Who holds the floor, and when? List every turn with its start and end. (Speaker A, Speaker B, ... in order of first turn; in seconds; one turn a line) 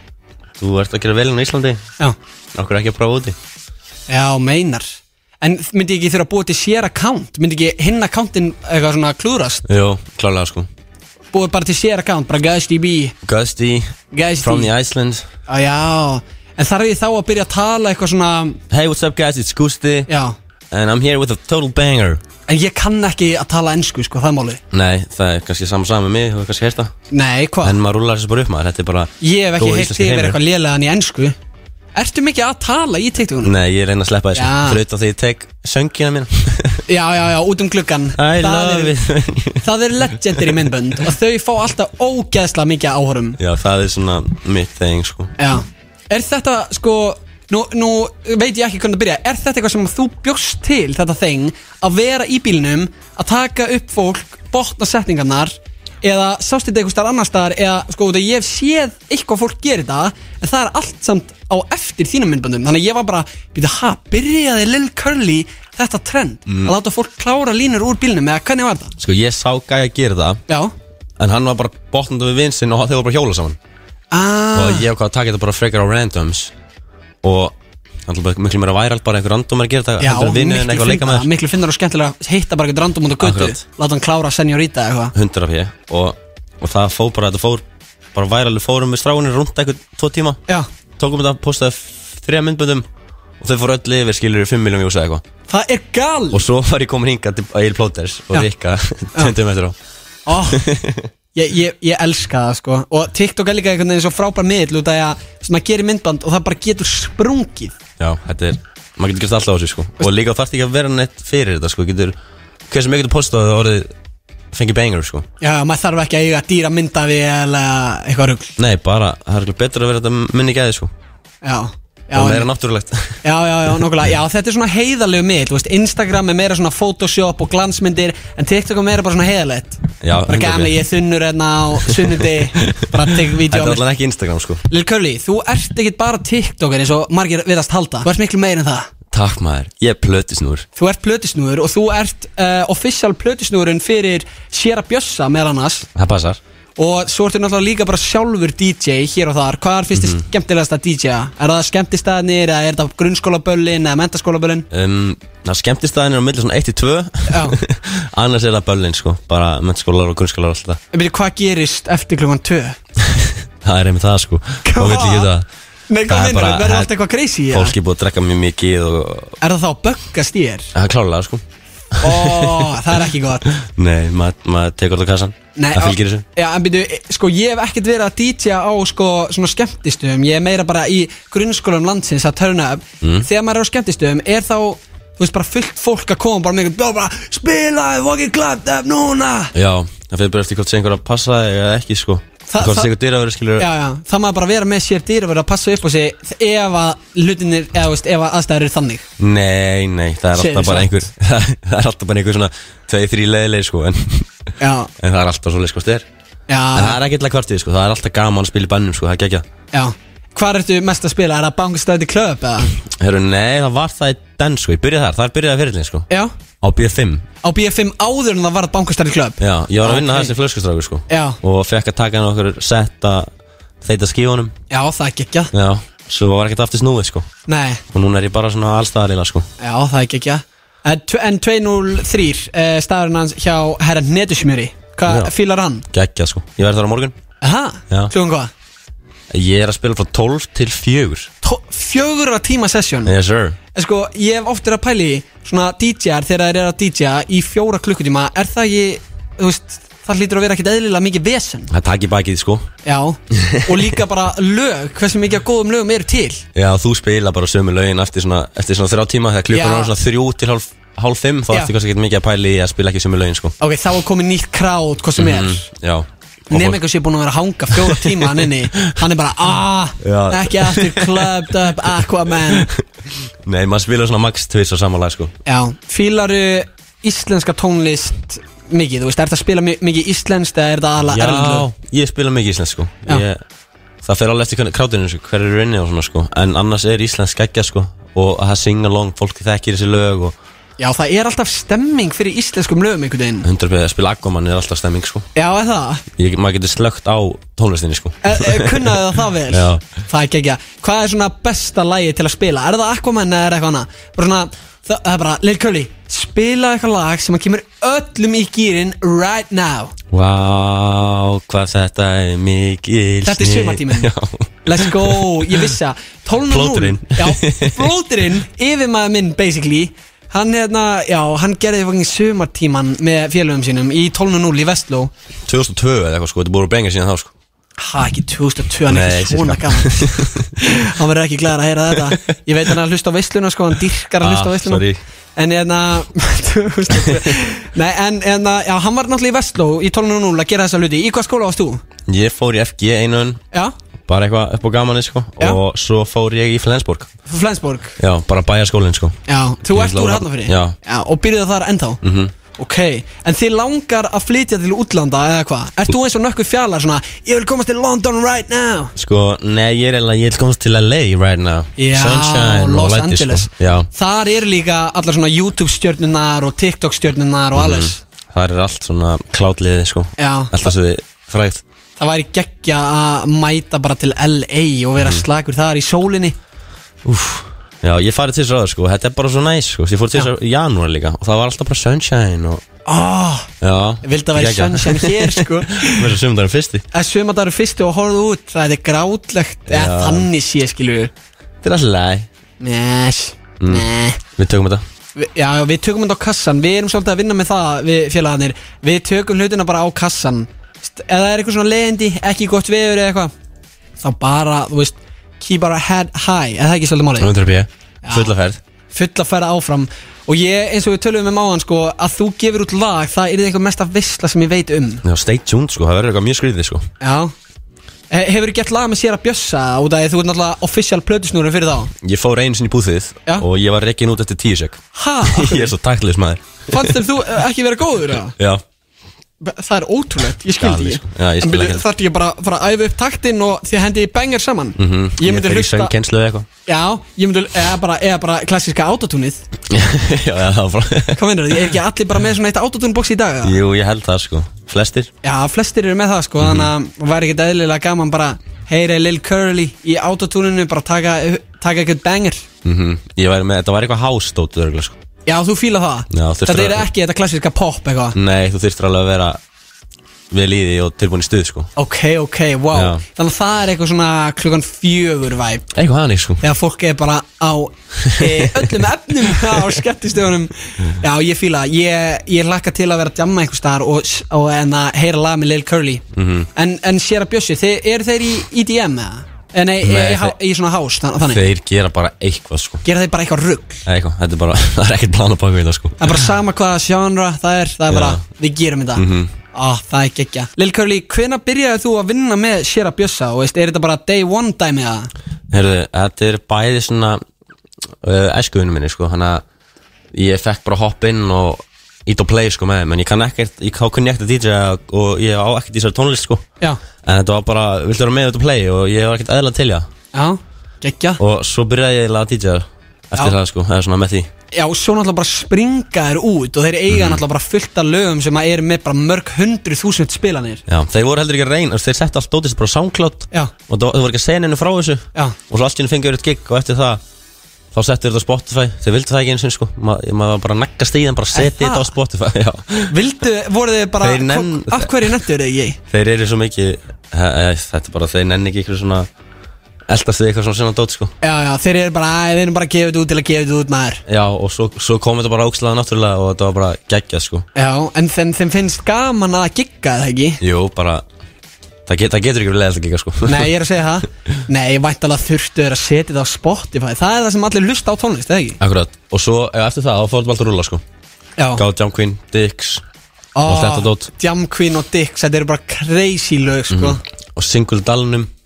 Speaker A: 0.6-1.8
Speaker A: 2.5-3.4
Speaker B: 4.1-9.6
Speaker A: 9.7-10.7
Speaker B: 11.3-13.1
Speaker A: 13.2-15.2
Speaker B: 14.1-14.7
Speaker B: 15.5-18.6
Speaker A: 18.7-20.1
Speaker B: 20.1-20.3
Speaker A: 20.7-22.2
Speaker B: 22.5-24.6
Speaker A: 24.7-26.9
Speaker B: 27.1-27.8
Speaker A: 27.6-30.4
Speaker B: 29.2-31.3
Speaker B: 31.9-33.5
Speaker A: 33.4-36.8
Speaker B: 34.3-34.8
Speaker B: 36.9-38.9
Speaker A: 38.2-39.6
Speaker B: 39.6-43.4
Speaker A: 43.4-45.3
Speaker B: 45.4-68.9
Speaker A: 66.5-66.7
Speaker A: 69.0-70.4
Speaker B: 70.5-70.7
Speaker A: 71.2-73.6
Speaker B: 74.1-74.9
Speaker A: 74.5-76.5
Speaker A: 77.2-77.5
Speaker A: 78.0-81.3
Speaker B: 80.0-85.1
Speaker A: 83.2-83.6
Speaker A: 85.1-87.6
Speaker A: 88.1-90.4
Speaker A: 91.0-92.8
Speaker A: 93.4-95.2
Speaker B: 95.5-96.4
Speaker A: 96.3-99.8
Speaker B: 100.2-100.6
Speaker A: 100.5-101.1
Speaker B: 101.3-107.7
Speaker A: 108.0-112.1
Speaker A: 112.7-113.9
Speaker A: 114.5-115.2
Speaker B: 115.4-118.5
Speaker A: 118.6-120.9
Speaker B: 121.4-122.5
Speaker A: 122.1-123.2
Speaker B: 123.2-133.8
Speaker A: 130.0-130.8
Speaker A: 131.9-134.6
Speaker B: 134.7-138.9
Speaker A: 139.1-140.7
Speaker B: 140.8-145.8
Speaker A: 145.9-146.4
Speaker B: 146.8-154.7
Speaker A: 149.9-150.2
Speaker A: 154.7-160.8
Speaker B: 157.3-157.6
Speaker B: 160.9-162.8
Speaker A: 163.2-165.4
Speaker B: 164.6-165.3
Speaker B: 165.9-167.7
Speaker A: 166.1-166.9
Speaker A: 167.5-169.3
Speaker B: 169.4-170.7
Speaker A: 170.7-171.4
Speaker A: 172.0-172.7
Speaker B: 172.0-173.4
Speaker A: 173.6-176.2
Speaker B: 175.6-189.5
Speaker A: 183.0-183.3
Speaker A: 189.5-193.7
Speaker B: 192.5-192.9
Speaker B: 193.6-199.0
Speaker A: 199.2-204.3
Speaker B: 200.3-200.9
Speaker B: 204.6-204.9
Speaker A: 205.0-206.1
Speaker B: 206.5-207.0
Speaker A: 206.7-209.4
Speaker B: 209.7-212.7
Speaker A: 212.8-216.1
Speaker A: 216.6-217.2
Speaker B: 217.4-220.3
Speaker A: 219.4-223.3
Speaker B: 221.1-221.4
Speaker A: 223.8-224.5
Speaker B: 224.7-225.5
Speaker A: 225.5-227.3
Speaker B: 227.5-227.8
Speaker A: 227.9-229.5
Speaker B: 229.6-235.8
Speaker A: 235.1-235.3
Speaker A: 235.9-237.1
Speaker B: 237.4-238.5
Speaker A: 239.3-241.3
Speaker B: 241.4-243.1
Speaker A: 243.1-243.6
Speaker B: 243.7-251.7
Speaker A: 251.7-252.7
Speaker B: 252.8-256.4
Speaker A: 253.3-253.9
Speaker A: 256.5-263.5
Speaker B: 259.5-259.9
Speaker B: 263.6-265.7
Speaker A: 265.2-266.8
Speaker B: 266.5-272.7
Speaker A: 267.7-268.9
Speaker A: 270.0-272.8
Speaker A: 273.4-275.3
Speaker B: 275.4-281.7
Speaker A: 281.1-283.4
Speaker A: 284.0-290.3
Speaker B: 290.8-293.5
Speaker A: 293.4-295.2
Speaker B: 295.3-296.0
Speaker A: 296.1-299.0
Speaker B: 298.2-309.9
Speaker A: 299.5-299.8
Speaker A: 310.1-315.7
Speaker B: 313.2-314.1
Speaker B: 314.6-325.1
Speaker A: 316.5-317.9
Speaker A: 325.5-327.3
Speaker B: 327.8-334.8
Speaker A: 328.9-330.5
Speaker A: 334.2-335.0
Speaker B: 335.4-341.8
Speaker A: 342.1-343.4
Speaker A: 344.1-347.1
Speaker B: 347.3-347.9
Speaker A: 348.0-349.2
Speaker B: 349.3-352.0
Speaker A: 349.7-350.8
Speaker A: 352.0-352.3
Speaker B: 352.6-358.9
Speaker A: 358.9-363.9
Speaker B: 361.8-368.0
Speaker A: 367.5-371.6
Speaker B: 370.2-370.6
Speaker B: 372.0-376.4
Speaker A: 375.0-375.2
Speaker A: 377.0-382.6
Speaker B: 382.9-383.5
Speaker A: 383.6-386.8
Speaker B: 384.0-386.2
Speaker B: 386.9-391.1
Speaker A: 389.7-390.3
Speaker A: 391.6-392.3
Speaker B: 392.6-394.2
Speaker A: 393.6-394.8
Speaker B: 395.1-403.3
Speaker B: 404.0-407.3
Speaker A: 407.2-408.6
Speaker B: 408.0-408.3
Speaker B: 408.9-415.0
Speaker A: 415.0-416.9
Speaker B: 417.0-417.3
Speaker B: 418.1-421.9
Speaker A: 422.0-427.0
Speaker B: 424.9-425.7
Speaker B: 426.7-428.3
Speaker B: 429.4-435.9
Speaker A: 430.6-431.8
Speaker A: 434.8-436.5
Speaker B: 436.6-439.4
Speaker A: 439.7-441.2
Speaker B: 441.1-443.6
Speaker A: 443.4-445.1
Speaker B: 445.2-452.4
Speaker A: 446.4-446.7
Speaker A: 452.6-455.0
Speaker B: 455.2-458.2
Speaker A: 456.1-456.9
Speaker A: 458.1-459.4
Speaker A: 460.3-461.7
Speaker B: 461.8-465.7
Speaker A: 462.7-463.0
Speaker A: 465.7-466.4
Speaker B: 466.4-476.0
Speaker A: 468.0-468.7
Speaker A: 476.1-476.5
Speaker B: 476.5-481.5
Speaker A: 479.8-480.3
Speaker A: 481.3-482.8
Speaker B: 482.8-483.8
Speaker A: 483.9-486.2
Speaker B: 486.0-495.1
Speaker A: 487.9-488.2
Speaker A: 488.9-489.3
Speaker A: 495.5-497.2
Speaker A: 498.0-499.4
Speaker A: 500.1-506.4
Speaker A: 507.0-509.9
Speaker B: 510.1-511.2
Speaker A: 511.2-514.3
Speaker B: 514.5-520.6
Speaker A: 516.9-517.2
Speaker A: 520.7-527.0
Speaker A: 527.7-532.9
Speaker B: 531.3-531.9
Speaker B: 532.9-535.8
Speaker A: 534.0-535.1
Speaker A: 535.9-539.1
Speaker A: 539.9-541.1
Speaker B: 541.2-544.0
Speaker A: 544.1-547.5
Speaker B: 547.5-550.4
Speaker A: 550.4-551.0
Speaker A: 551.9-553.5
Speaker B: 553.2-558.6
Speaker A: 558.6-560.8
Speaker B: 561.4-561.6
Speaker A: 561.5-562.8
Speaker B: 563.3-567.0
Speaker A: 563.4-564.1
Speaker A: 566.7-568.3